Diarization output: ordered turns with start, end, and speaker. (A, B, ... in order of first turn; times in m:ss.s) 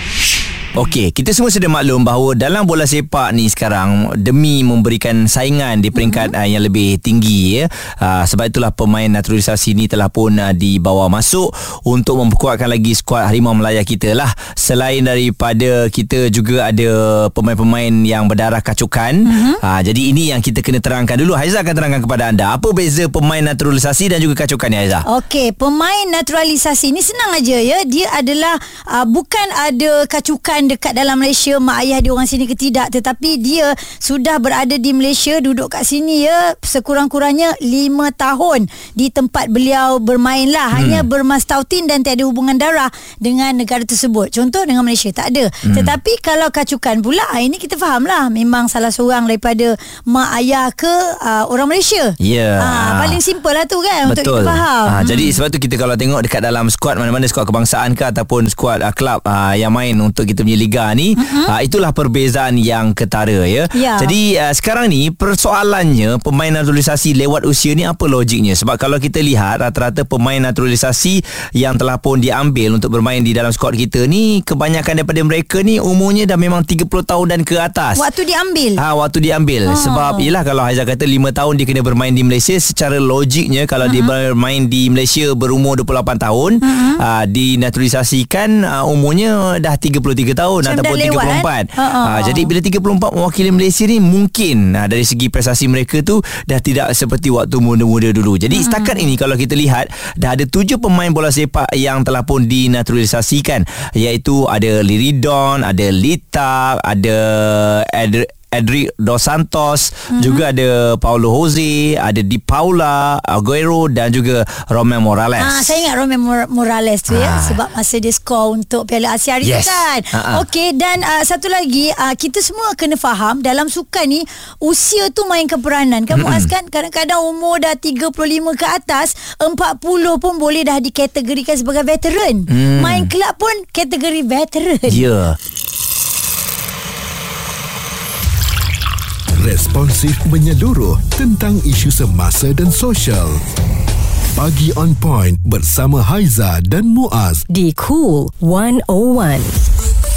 0:00.7-0:25.0 A
0:06.0-0:06.3 B
0:19.2-0:19.6 B
0:25.0-0:55.4 B
0:40.7-0:41.0 A
0:45.6-0:45.9 A
0:52.2-0:53.2 A
0:54.0-1:18.0 A
1:01.2-1:01.5 B
1:03.7-1:04.1 B
1:17.9-1:18.8 B
1:18.8-1:55.8 A
1:19.7-1:20.3 B
1:23.8-1:24.1 B
1:26.6-1:27.0 B
1:30.6-1:32.5 B
1:38.5-1:39.1 B
1:50.1-1:50.4 B
1:55.4-2:15.0 B
1:57.1-1:57.6 A
1:59.4-2:00.4 A
2:06.1-2:06.5 A
2:12.5-2:13.1 A
2:14.9-2:15.3 A
2:19.4-2:23.4 C
2:24.4-2:27.4 C
2:27.5-2:29.6 D